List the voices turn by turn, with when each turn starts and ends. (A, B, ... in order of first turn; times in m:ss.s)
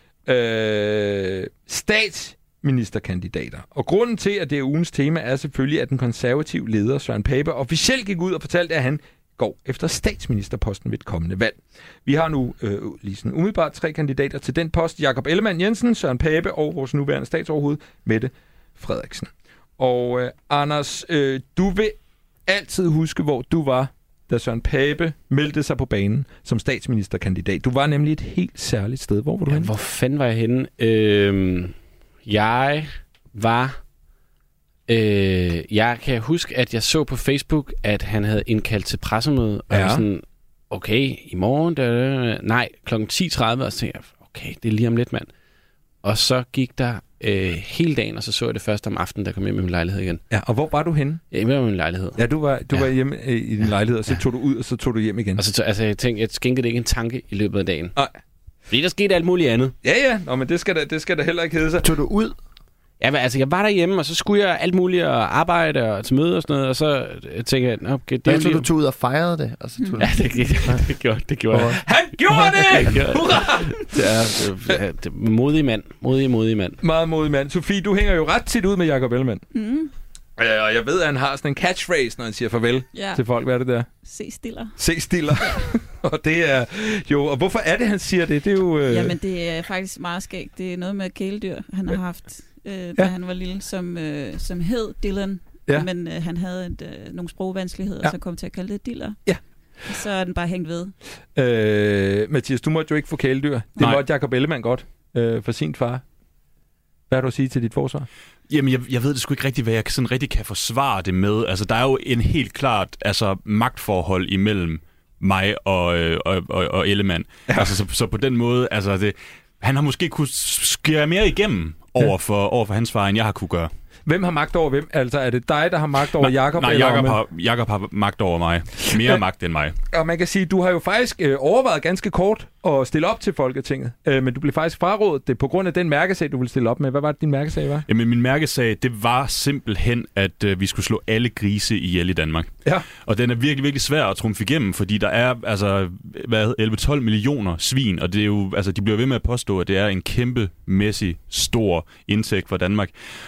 0:00.3-0:29.7 A
0:29.5-0:33.8 B
0:34.9-0:45.3 B
0:39.7-0:40.0 A
0:46.0-0:50.2 B
0:50.3-0:51.2 A
0:51.3-0:52.2 B
0:52.2-0:55.4 A
0:55.4-0:58.0 B
0:58.7-0:59.8 B
0:59.8-1:01.9 A
1:01.8-1:02.4 C
1:03.0-1:08.7 B
1:08.3-1:10.4 C
1:09.8-1:10.1 D
1:10.0-1:11.8 B
1:11.5-1:11.8 C
1:11.7-1:14.0 A
1:12.4-1:16.8 B
1:16.8-1:19.4 A
1:19.5-1:19.9 D
1:20.4-1:23.9 A
1:22.9-1:23.2 D
1:23.9-1:24.8 D
1:24.8-1:29.2 A
1:28.9-1:39.2 D
1:39.8-1:40.9 D
1:41.4-1:46.0 A
1:47.1-1:48.1 A
1:48.5-2:03.7 E
2:04.1-2:07.2 A
2:06.2-2:09.8 E
2:09.9-2:17.8 A
2:17.9-2:22.5 E
2:23.0-2:33.0 E